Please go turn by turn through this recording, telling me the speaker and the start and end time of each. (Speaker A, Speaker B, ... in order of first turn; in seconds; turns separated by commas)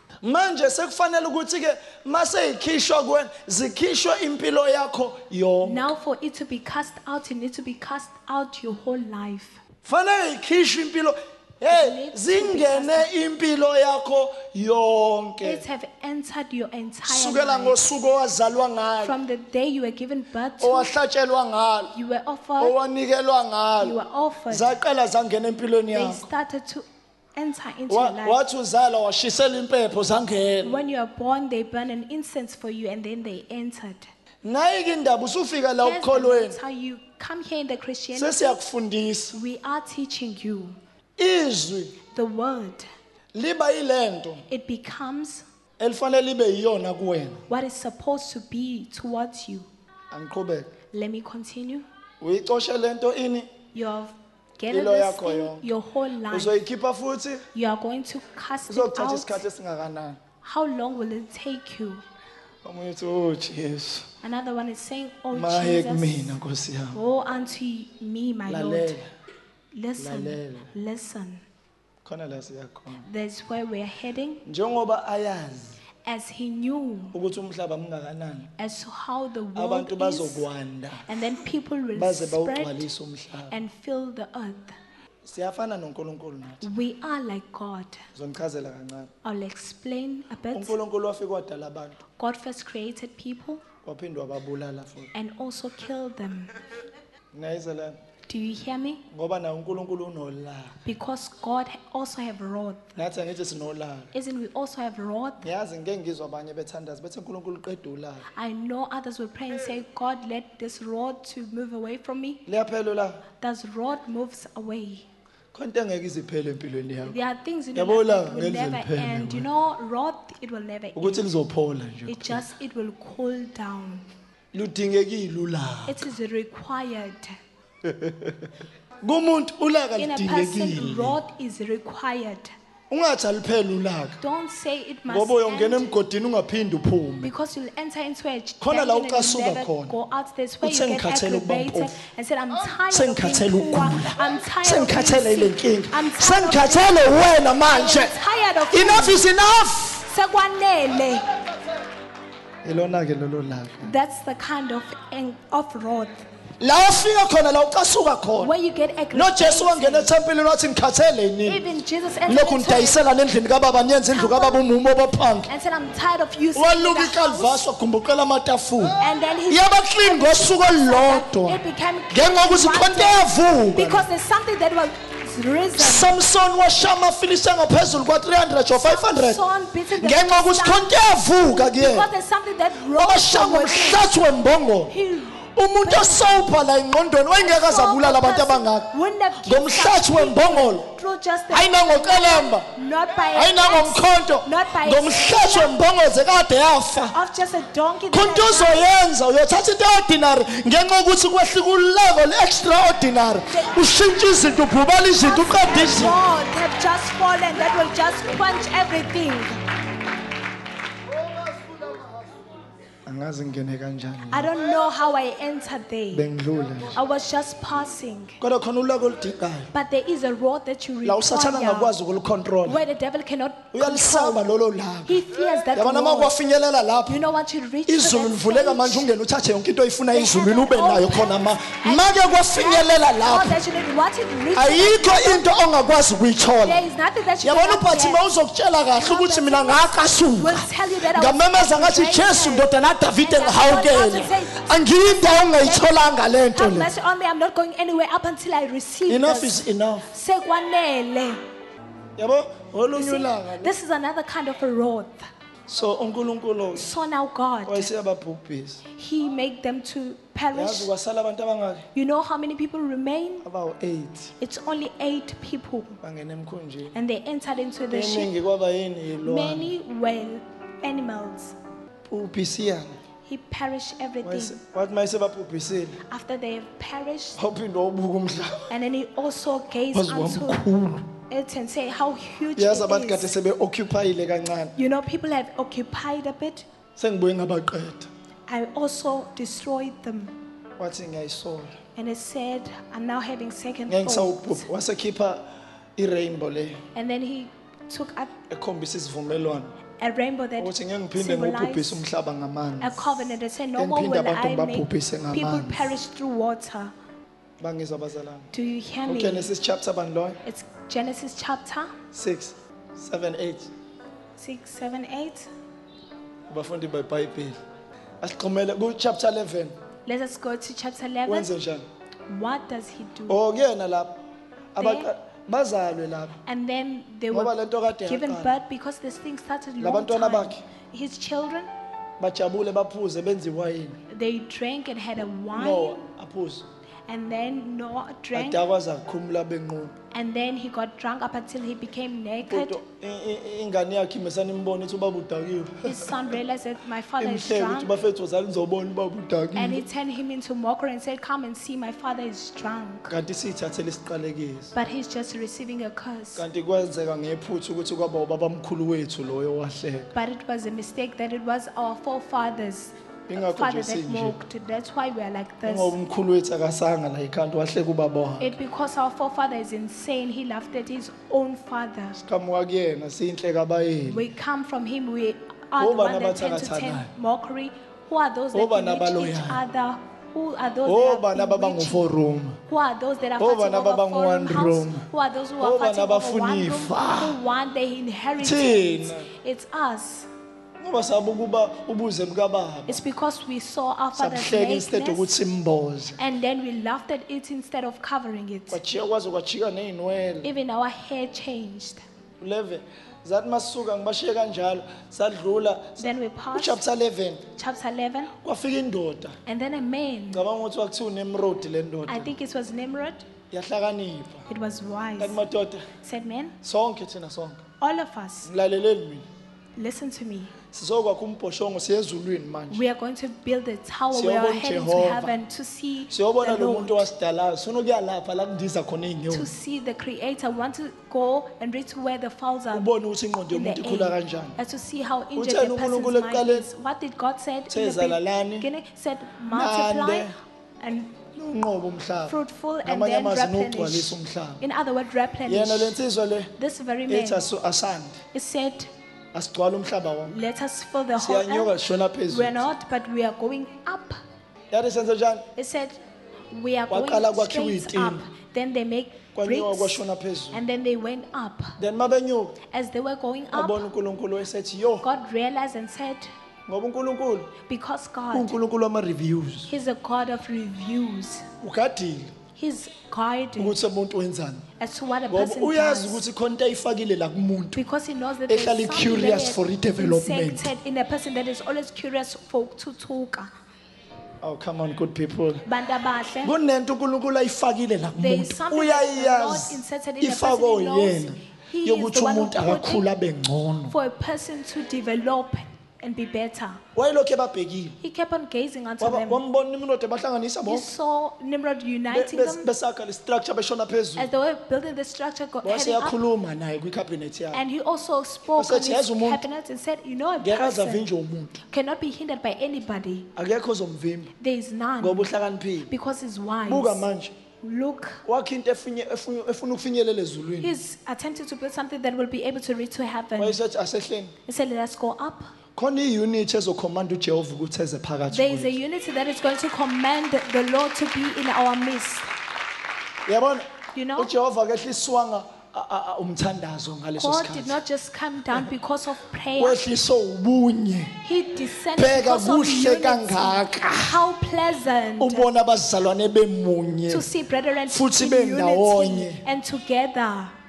Speaker A: 0.2-5.9, Speaker B: 5.6-9.6, Speaker A: 9.8-15.6, Speaker B: 11.7-13.1, Speaker B: 15.4-17.8, Speaker A: 17.1-19.2, Speaker B: 19.0-20.9, Speaker A: 20.6-21.9, Speaker B: 21.9-22.8, Speaker A: 22.6-24.0, Speaker B: 23.8-24.8, Speaker A: 24.5-26.2, Speaker B: 25.9-26.8, Speaker B: 27.4-28.4, Speaker A: 27.9-30.8, Speaker B: 30.6-34.1, Speaker A: 34.4-36.6, Speaker B: 35.8-38.4, Speaker A: 38.1-39.4, Speaker B: 39.3-40.8, Speaker A: 41.2-42.0, Speaker B: 42.1-42.9, Speaker A: 43.3-44.4, Speaker B: 44.5-45.4, Speaker A: 45.8-47.4, Speaker B: 47.5-49.7, Speaker A: 50.1-50.7, Speaker B: 50.9-51.9, Speaker A: 52.2-53.5, Speaker B: 53.7-56.5, Speaker A: 54.7-55.7, Speaker A: 56.3-57.4, Speaker B: 57.5-59.4, Speaker A: 58.7-60.2, Speaker B: 60.4-62.0, Speaker A: 62.6-64.1, Speaker B: 64.2-66.3, Speaker A: 65.3-67.0, Speaker B: 66.9-69.0, Speaker A: 68.5-69.1, Speaker B: 69.7-71.4, Speaker A: 70.0-70.7, Speaker A: 72.0-73.1, Speaker B: 73.0-74.4, Speaker A: 74.5-75.8, Speaker B: 76.0-77.2, Speaker A: 77.1-78.5, Speaker B: 78.6-80.5, Speaker A: 79.5-81.1, Speaker B: 81.1-82.8, Speaker A: 81.9-83.6, Speaker B: 83.5-84.8, Speaker A: 85.2-86.7, Speaker B: 86.6-88.0, Speaker A: 88.1-89.1, Speaker B: 89.2-90.8, Speaker A: 90.5-92.0, Speaker B: 92.2-93.6, Speaker A: 93.8-95.1, Speaker B: 95.1-96.5, Speaker A: 97.3-98.0, Speaker B: 98.3-99.0, Speaker A: 99.1-100.8, Speaker B: 100.8-102.9, Speaker A: 103.0-104.1, Speaker B: 104.1-105.5, Speaker A: 105.4-108.2, Speaker B: 108.3-112.4, Speaker A: 112.5-113.2, Speaker B: 113.4-115.0, Speaker A: 115.5-117.2, Speaker B: 117.0-121.2, Speaker A: 117.7-119.5, Speaker A: 121.0-122.4, Speaker B: 122.0-124.0, Speaker A: 124.5-126.0, Speaker B: 125.9-127.3, Speaker A: 127.8-128.5, Speaker A: 129.0-131.2, Speaker B: 130.0-132.5, Speaker A: 132.9-134.2, Speaker B: 134.2-135.9, Speaker A: 135.1-137.3, Speaker B: 137.2-147.0, Speaker A: 138.6-139.9, Speaker A: 140.6-142.0, Speaker A: 142.7-148.2, Speaker B: 147.7-149.2, Speaker A: 148.7-150.0, Speaker B: 150.0-151.3, Speaker A: 152.6-153.9, Speaker B: 153.8-156.2, Speaker A: 156.6-158.5, Speaker B: 158.4-160.1, Speaker A: 159.1-161.6, Speaker B: 161.4-163.1, Speaker A: 162.2-165.5, Speaker B: 164.1-164.6, Speaker B: 165.5-167.6, Speaker A: 166.5-174.1, Speaker B: 169.0-176.1, Speaker A: 175.8-179.4, Speaker B: 178.8-180.9, Speaker A: 179.9-182.1, Speaker B: 181.7-184.1, Speaker A: 182.8-184.9, Speaker B: 184.9-186.5, Speaker A: 185.4-190.9, Speaker B: 187.3-195.8, Speaker A: 191.5-192.7, Speaker A: 193.3-197.2, Speaker B: 197.1-198.8, Speaker A: 198.1-206.2, Speaker B: 203.5-203.8, Speaker B: 205.2-209.6, Speaker A: 211.2-212.3, Speaker A: 213.1-214.6, Speaker B: 214.3-216.2, Speaker A: 216.1-217.0, Speaker B: 216.9-218.4, Speaker A: 218.4-219.7, Speaker B: 219.7-221.9, Speaker A: 221.0-222.8, Speaker B: 222.6-224.4, Speaker A: 223.7-227.2, Speaker B: 225.1-226.3, Speaker B: 227.1-229.1, Speaker A: 227.9-233.6, Speaker B: 230.1-235.5, Speaker A: 234.5-236.8, Speaker B: 236.6-238.2, Speaker A: 237.4-246.9, Speaker B: 238.9-246.0, Speaker B: 246.5-251.4, Speaker A: 249.1-250.1, Speaker A: 252.2-253.7, Speaker B: 252.9-255.3, Speaker A: 255.7-256.9, Speaker B: 256.7-257.9, Speaker A: 257.6-258.8, Speaker B: 258.9-260.9, Speaker A: 260.5-261.9, Speaker B: 261.9-263.4, Speaker A: 263.4-264.3, Speaker B: 264.4-266.0, Speaker A: 266.0-266.9, Speaker B: 266.9-268.3, Speaker A: 267.9-269.7, Speaker B: 269.2-271.6, Speaker A: 272.1-273.0, Speaker B: 273.2-274.6, Speaker A: 274.2-276.0, Speaker B: 276.1-277.4, Speaker A: 277.4-278.7, Speaker B: 278.7-280.6, Speaker A: 279.9-281.1, Speaker B: 281.3-283.3, Speaker A: 282.6-284.7, Speaker B: 284.8-286.7, Speaker A: 287.0-288.1, Speaker B: 288.5-290.4, Speaker A: 290.8-291.7, Speaker B: 291.9-294.7, Speaker A: 293.9-296.8, Speaker B: 296.9-298.3, Speaker A: 298.5-299.7, Speaker B: 300.0-302.0, Speaker A: 300.6-305.9, Speaker B: 302.8-306.9, Speaker A: 307.6-308.5, Speaker B: 308.5-309.5, Speaker A: 309.1-310.4, Speaker B: 310.4-311.9, Speaker A: 312.1-313.7, Speaker B: 314.4-315.5, Speaker A: 316.5-317.6, Speaker A: 318.2-319.8, Speaker B: 320.1-321.5, Speaker A: 321.2-321.9, Speaker B: 322.3-323.4, Speaker A: 323.3-324.2, Speaker A: 324.7-326.4, Speaker B: 324.8-325.1, Speaker B: 326.4-331.7, Speaker A: 327.3-328.6, Speaker A: 329.8-330.6, Speaker A: 332.2-334.0, Speaker B: 334.1-336.0, Speaker A: 335.5-336.6, Speaker B: 337.1-338.6, Speaker A: 338.3-339.9, Speaker B: 340.1-342.8, Speaker A: 342.4-346.4, Speaker B: 345.8-347.9, Speaker A: 347.2-349.8, Speaker B: 349.5-353.1, Speaker A: 353.1-354.7, Speaker B: 354.7-356.4, Speaker A: 356.4-360.1, Speaker B: 360.1-365.9, Speaker A: 363.3-364.4, Speaker A: 365.6-368.6, Speaker B: 368.4-372.2, Speaker A: 372.2-374.2, Speaker B: 374.1-382.1, Speaker A: 375.8-377.1, Speaker A: 378.5-379.6, Speaker A: 380.8-382.6, Speaker B: 382.7-390.3, Speaker A: 383.4-385.1, Speaker A: 385.6-387.4, Speaker A: 388.4-389.3, Speaker A: 390.8-393.0, Speaker B: 392.9-395.3, Speaker A: 394.1-396.2, Speaker B: 396.2-398.8, Speaker A: 398.7-400.5, Speaker B: 400.4-402.0, Speaker A: 402.4-407.4, Speaker B: 406.0-406.8, Speaker B: 407.5-408.3, Speaker A: 408.4-409.4, Speaker B: 409.4-410.4, Speaker A: 410.3-412.3, Speaker B: 412.1-413.3, Speaker A: 413.5-414.4, Speaker B: 414.5-415.4, Speaker A: 415.2-415.9, Speaker B: 416.0-416.6, Speaker A: 416.6-417.6, Speaker B: 417.8-418.5, Speaker A: 418.4-419.2, Speaker B: 419.8-420.5, Speaker A: 420.7-422.8, Speaker B: 422.7-427.1, Speaker A: 424.1-425.3, Speaker A: 426.1-429.5, Speaker B: 429.3-432.9, Speaker A: 432.7-434.6, Speaker B: 433.5-441.2, Speaker A: 435.4-436.7, Speaker A: 437.7-438.7, Speaker A: 439.5-440.3, Speaker A: 441.3-444.6, Speaker B: 442.3-446.0, Speaker A: 445.5-446.5, Speaker B: 446.6-447.5, Speaker A: 447.1-448.2, Speaker B: 448.3-448.9, Speaker A: 449.3-450.4, Speaker B: 450.3-451.7, Speaker A: 451.2-452.7, Speaker B: 452.3-454.2, Speaker A: 454.7-455.5, Speaker B: 455.5-456.0, Speaker B: 456.5-460.0, Speaker A: 456.9-458.2, Speaker A: 459.3-460.6, Speaker B: 460.5-461.8, Speaker A: 461.8-462.6, Speaker B: 462.7-463.9, Speaker A: 463.5-465.0, Speaker B: 465.0-466.3, Speaker A: 466.7-467.5, Speaker B: 467.6-468.5, Speaker A: 468.3-469.7, Speaker B: 469.7-471.4, Speaker A: 471.6-472.3, Speaker B: 472.6-473.8, Speaker A: 473.6-474.6, Speaker B: 474.8-476.2, Speaker A: 475.3-477.8, Speaker B: 477.7-483.5, Speaker A: 478.5-480.7, Speaker A: 484.4-485.6, Speaker B: 485.6-486.5, Speaker A: 486.4-493.9, Speaker B: 488.2-493.1, Speaker B: 493.9-496.8, Speaker A: 496.9-498.0, Speaker B: 498.0-499.4, Speaker A: 499.0-500.9, Speaker B: 500.6-502.7, Speaker A: 502.1-504.3, Speaker B: 504.2-506.2, Speaker A: 505.6-507.6, Speaker B: 507.5-511.1, Speaker A: 508.6-509.4, Speaker A: 510.4-511.6, Speaker B: 511.7-513.3, Speaker A: 513.4-514.3, Speaker B: 514.4-515.3, Speaker A: 515.0-515.9, Speaker B: 515.9-517.0, Speaker A: 516.6-517.3, Speaker B: 517.6-518.2, Speaker A: 518.2-520.7, Speaker B: 520.6-523.6, Speaker A: 523.4-524.3, Speaker B: 524.5-525.5, Speaker A: 525.8-528.8, Speaker B: 528.3-532.3, Speaker A: 533.2-537.8, Speaker B: 533.9-534.3, Speaker B: 537.2-539.8, Speaker A: 539.6-541.2, Speaker B: 541.2-545.5, Speaker A: 542.0-544.2, Speaker A: 545.2-547.3, Speaker B: 547.1-550.5, Speaker A: 547.9-549.4